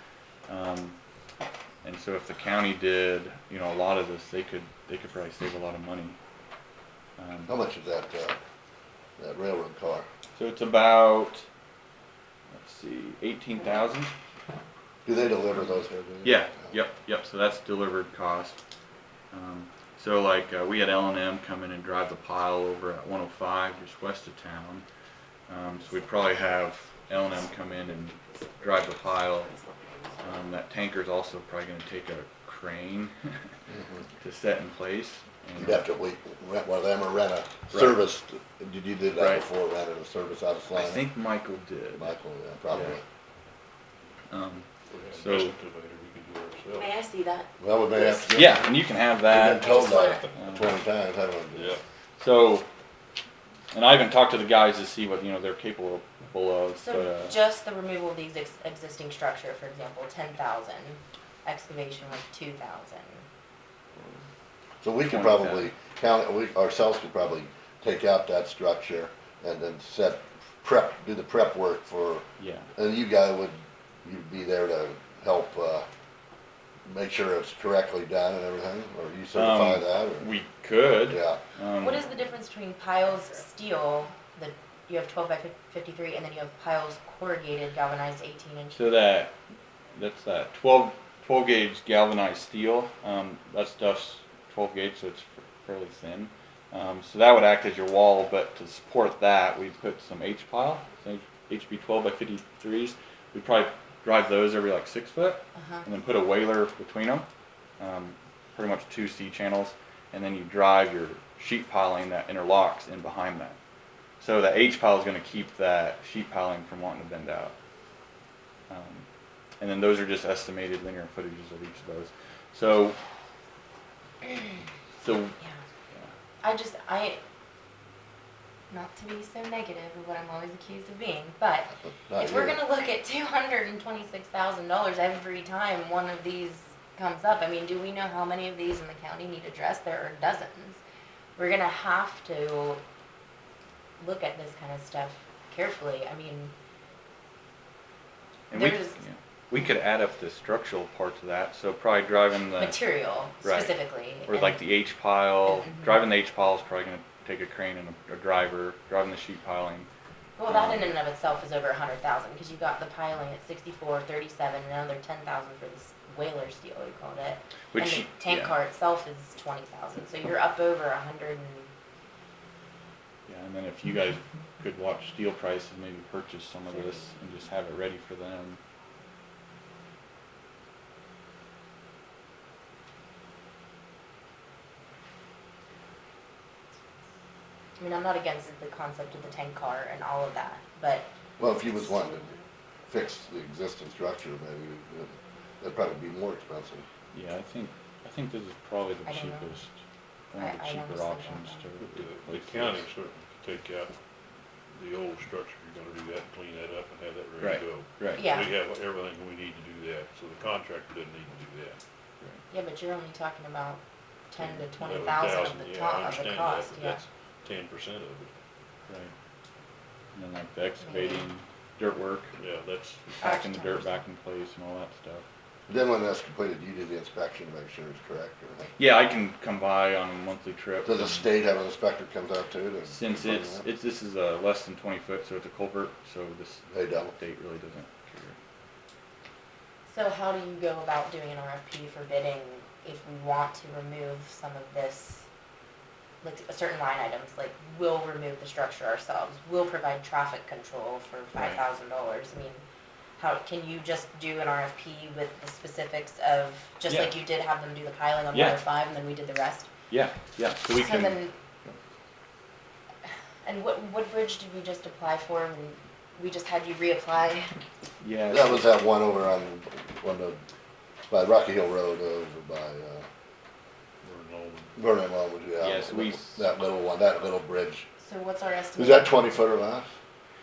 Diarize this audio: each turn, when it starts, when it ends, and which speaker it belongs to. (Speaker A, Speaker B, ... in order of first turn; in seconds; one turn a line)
Speaker A: 0.5-1.0
Speaker A: 1.8-6.2
Speaker A: 7.2-7.5
Speaker B: 7.5-8.4
Speaker B: 9.2-10.1
Speaker A: 10.4-11.5
Speaker A: 12.5-14.1
Speaker B: 15.1-16.7
Speaker A: 16.2-18.6
Speaker A: 19.3-24.8
Speaker A: 25.5-29.5
Speaker A: 30.2-33.4
Speaker B: 33.7-34.0
Speaker A: 34.2-35.9
Speaker B: 35.6-41.1
Speaker A: 37.7-38.0
Speaker A: 39.2-39.5
Speaker A: 40.8-42.1
Speaker B: 42.0-43.0
Speaker A: 42.7-43.0
Speaker A: 44.3-45.6
Speaker C: 44.9-46.9
Speaker D: 46.8-48.3
Speaker B: 47.6-48.7
Speaker A: 48.4-49.8
Speaker B: 49.2-51.8
Speaker D: 49.6-50.3
Speaker C: 49.9-50.8
Speaker A: 50.4-50.7
Speaker C: 51.5-51.8
Speaker A: 52.2-52.7
Speaker A: 53.7-57.4
Speaker D: 56.8-63.2
Speaker B: 64.8-75.9
Speaker A: 65.1-65.7
Speaker A: 72.4-72.7
Speaker B: 76.9-80.3
Speaker A: 79.3-82.0
Speaker B: 81.1-81.4
Speaker D: 81.8-88.9
Speaker A: 88.7-89.3
Speaker A: 90.0-107.3
Speaker D: 105.5-105.9
Speaker A: 107.8-113.6
Speaker A: 114.2-117.5
Speaker A: 118.7-119.1
Speaker A: 119.6-123.0
Speaker A: 125.0-125.4
Speaker D: 126.4-127.2
Speaker D: 128.7-140.8
Speaker B: 132.1-132.6
Speaker D: 141.4-142.8
Speaker D: 144.0-146.5
Speaker D: 148.5-149.0
Speaker A: 148.5-152.8
Speaker D: 152.6-154.6
Speaker A: 153.4-153.8
Speaker A: 154.3-159.9
Speaker D: 155.4-156.0
Speaker D: 160.4-171.7
Speaker A: 160.5-160.9
Speaker A: 167.7-168.6
Speaker A: 173.3-178.6
Speaker D: 187.8-191.1
Speaker B: 191.4-192.3
Speaker D: 192.2-192.4
Speaker B: 192.9-196.8
Speaker A: 197.1-199.8
Speaker D: 199.1-199.6
Speaker A: 200.3-202.8
Speaker D: 200.4-201.7
Speaker C: 201.8-204.0
Speaker C: 204.7-211.8
Speaker A: 207.4-208.3
Speaker D: 208.2-208.5
Speaker D: 212.5-217.0
Speaker C: 214.4-218.3
Speaker A: 218.9-219.1
Speaker A: 220.2-222.3
Speaker D: 220.8-221.3
Speaker C: 222.4-223.2
Speaker A: 223.2-225.2
Speaker D: 223.2-223.9
Speaker B: 225.7-228.7
Speaker A: 228.8-231.3
Speaker B: 230.8-233.7
Speaker A: 232.9-238.4
Speaker B: 236.7-237.1
Speaker D: 239.9-245.3
Speaker D: 246.2-252.6
Speaker A: 251.3-251.6
Speaker D: 253.2-259.7
Speaker A: 256.9-257.1
Speaker A: 258.3-258.6
Speaker A: 259.9-261.8
Speaker D: 260.7-261.3
Speaker D: 263.4-267.5
Speaker A: 268.0-268.7
Speaker B: 268.3-270.4
Speaker B: 271.1-273.1
Speaker C: 274.0-274.8
Speaker B: 274.8-277.9
Speaker A: 275.6-276.5
Speaker D: 278.0-279.2
Speaker B: 278.8-279.9